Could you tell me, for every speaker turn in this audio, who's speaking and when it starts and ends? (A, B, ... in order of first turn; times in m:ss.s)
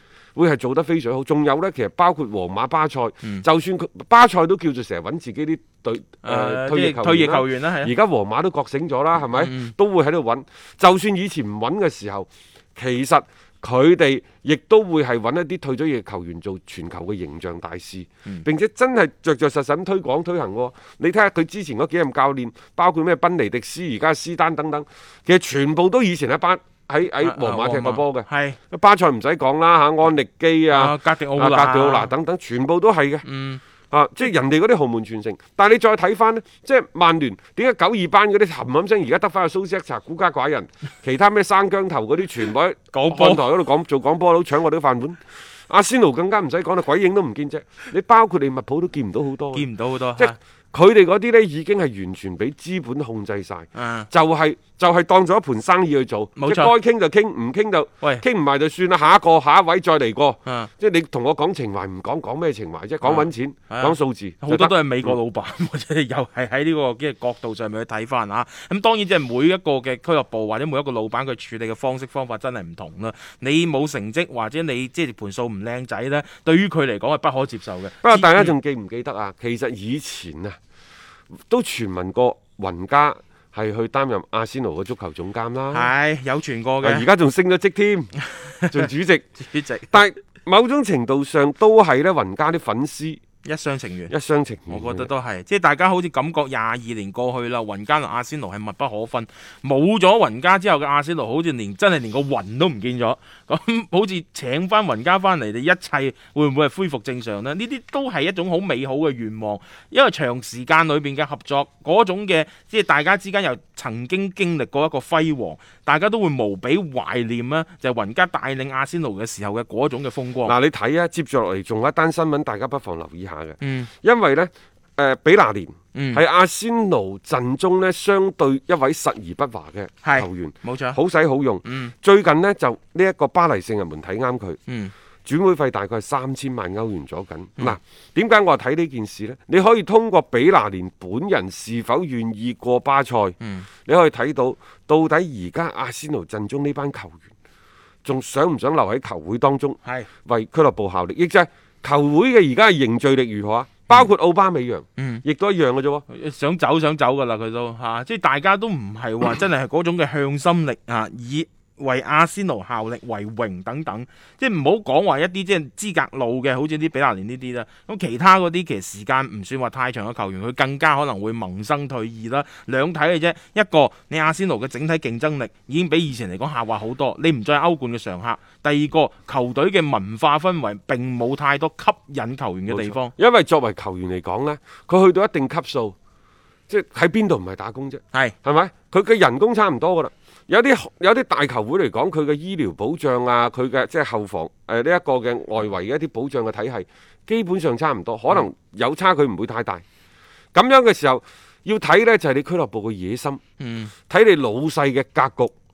0:00.4-0:33.2 A
0:06.2-0:07.9 B
0:09.3-0:09.7 B
0:27.2-0:28.6 B
0:30.7-0:32.1 B
0:33.2-0:33.6 B
0:33.9-1:05.2 A
0:42.9-0:43.5 B
0:49.5-0:50.4 B
0:53.8-0:54.1 B
0:56.4-0:56.7 B
1:03.0-1:18.5 B
1:18.0-1:20.6 A
1:21.5-1:25.9 A
1:25.7-1:27.1 B
1:26.8-1:28.1 A
1:28.2-1:29.9 B
1:28.7-1:29.3 A
1:29.9-1:33.2 A
1:33.4-1:34.1 B
1:34.1-1:35.1 A
1:34.7-2:00.6 B
2:00.4-2:14.6 A
2:03.6-2:03.9 B
2:05.9-2:06.2 B
2:10.0-2:11.0 B
2:11.6-2:11.9 B
2:14.7-2:14.9 B
2:15.2-2:27.3 A
2:23.4-2:23.7 B
2:28.0-2:36.0 A
2:35.0-2:35.2 B
2:36.1-3:03.1 B
3:02.7-3:06.0 A
3:06.7-3:19.8 A
3:20.5-3:23.4 A
3:23.6-3:23.9 B
3:24.1-3:25.5 A